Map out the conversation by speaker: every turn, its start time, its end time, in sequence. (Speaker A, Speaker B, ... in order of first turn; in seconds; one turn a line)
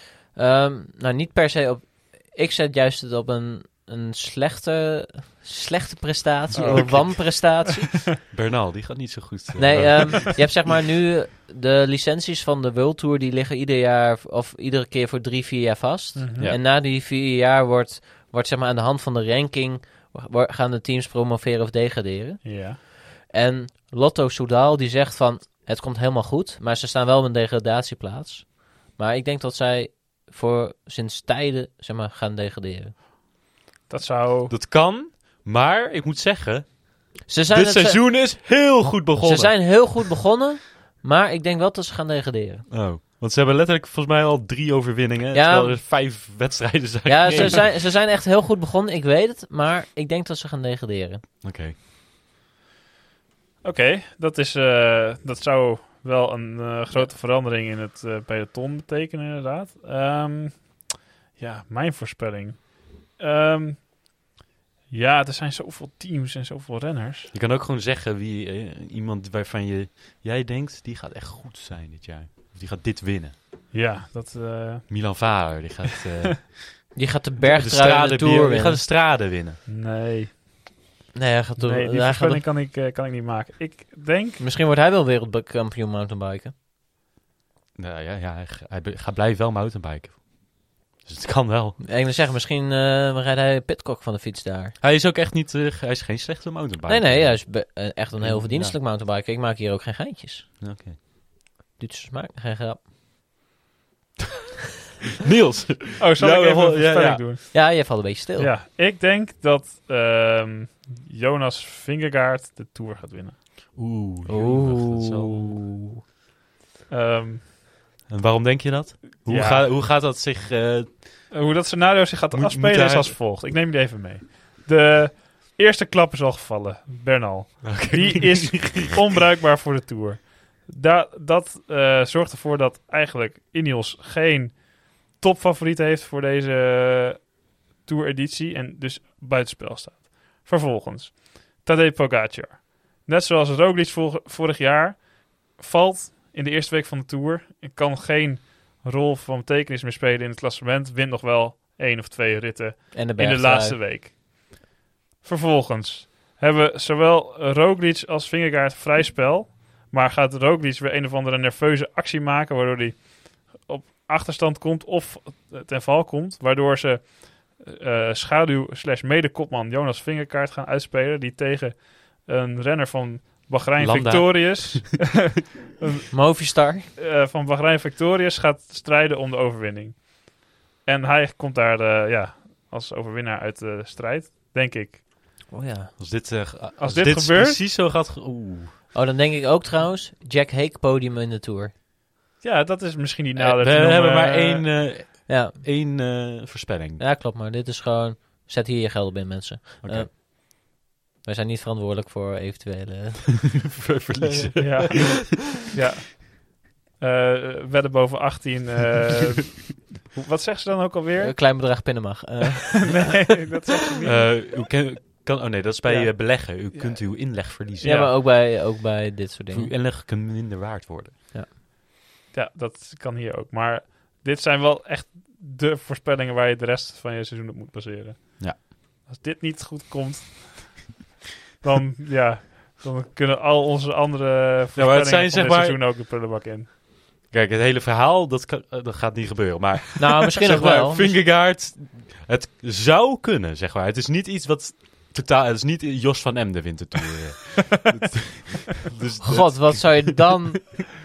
Speaker A: 0.3-8.1
Speaker B: 6.5-7.5
Speaker C: 6.6-7.1
Speaker C: 8.3-10.4
Speaker A: 9.6-32.9
Speaker B: 16.2-16.5
Speaker B: 22.4-22.8
Speaker B: 33.9-34.5
Speaker C: 34.5-40.1
Speaker A: 37.3-38.4
Speaker A: 39.2-42.7
Speaker C: 42.7-47.7
Speaker A: 45.3-45.8
Speaker A: 47.1-51.2
Speaker C: 51.4-51.8
Speaker B: 53.6-63.9
Speaker B: 64.9-67.3
Speaker C: 67.3-73.3
Speaker B: 73.7-75.7
Speaker C: 74.9-79.6
Speaker A: 77.0-78.8
Speaker B: 79.7-80.4
Speaker A: 81.1-82.4
Speaker B: 81.6-84.4
Speaker A: 84.4-86.5
Speaker C: 87.8-91.8
Speaker A: 91.8-94.8
Speaker C: 94.8-98.8
Speaker A: 96.9-100.6
Speaker C: 100.6-101.0
Speaker A: 101.8-102.8
Speaker C: 105.2-107.2
Speaker B: 106.0-107.7
Speaker A: 107.5-108.5
Speaker B: 108.4-113.4
Speaker C: 113.8-115.7
Speaker A: 114.3-116.0
Speaker B: 116.9-117.4
Speaker C: 118.1-121.5
Speaker B: 119.2-119.7
Speaker B: 121.3-154.7
Speaker C: 122.3-123.2
Speaker C: 127.6-128.9
Speaker A: 152.9-153.8
Speaker B: 155.2-175.0
Speaker C: 173.8-175.0
Speaker A: 176.1-176.9
Speaker B: 177.0-185.0
Speaker A: 185.5-185.9
Speaker C: 186.0-188.7
Speaker B: 186.8-187.6
Speaker A: 188.9-191.7
Speaker B: 192.4-194.8
Speaker C: 193.4-197.0
Speaker A: 195.3-195.6
Speaker A: 197.0-203.7
Speaker C: 199.8-200.1
Speaker C: 203.6-205.3
Speaker A: 204.3-205.0
Speaker B: 204.6-211.3
Speaker A: 211.2-213.1
Speaker B: 212.8-214.4
Speaker C: 214.0-218.2
Speaker B: 215.8-218.1
Speaker A: 217.8-219.7
Speaker C: 219.5-221.2
Speaker B: 222.3-231.0
Speaker B: 231.6-236.7
Speaker C: 234.8-235.8
Speaker C: 237.3-250.3
Speaker A: 240.0-241.2
Speaker A: 249.2-250.8